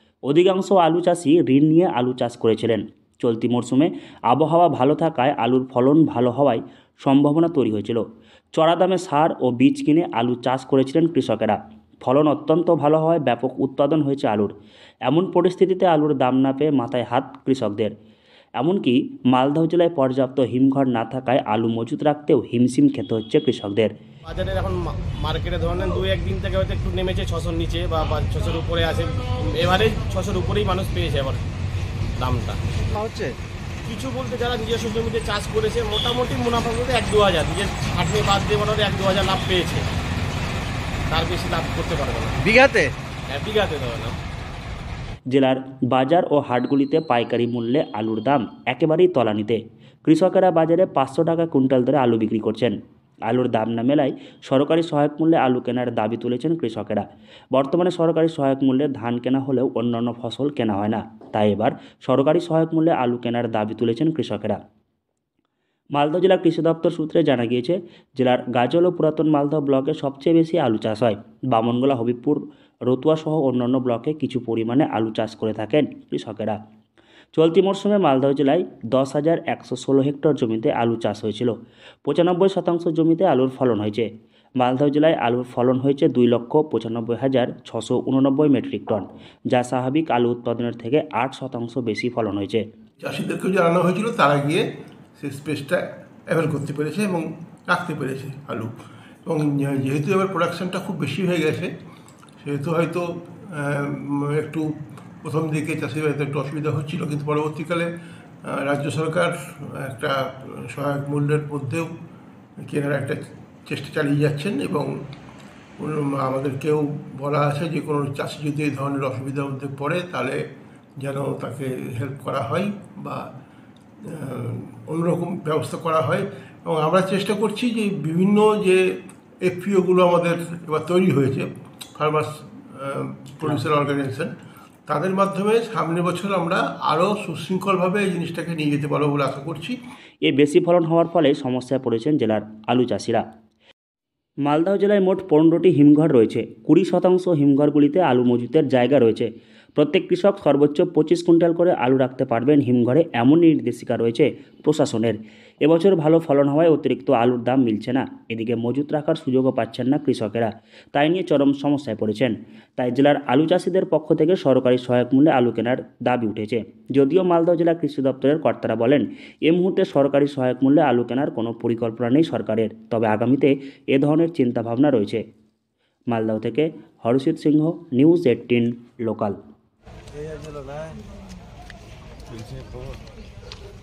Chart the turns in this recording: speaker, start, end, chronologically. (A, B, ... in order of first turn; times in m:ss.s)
0:00.3-0:08.0 A
0:08.5-0:14.5 A
0:15.1-0:17.9 A
0:18.6-0:23.9 A
0:24.3-0:31.4 B
0:32.2-0:32.6 B
0:32.9-0:33.4 C
0:33.8-0:39.9 B
0:41.1-0:42.4 B
0:42.4-0:42.9 C
0:43.3-0:44.2 B
0:45.3-0:52.8 A
0:53.3-1:04.6 A
1:05.9-1:16.6 A
1:17.4-1:21.6 A
1:22.1-1:24.1 A
1:24.6-1:32.6 A
1:33.0-1:34.6 D
1:35.2-1:38.7 D
1:39.3-1:41.7 D
1:42.4-1:47.9 D
1:48.4-1:51.9 D
1:52.7-1:54.9 D
1:55.8-2:00.4 D
2:01.0-2:03.3 D
2:04.0-2:08.8 D
2:09.4-2:14.3 D
2:14.9-2:19.8 D
2:20.2-2:23.2 A
2:24.5-2:55.2 A
2:56.1-2:59.4 A
3:00.1-3:01.0 C
3:02.3-3:03.0 C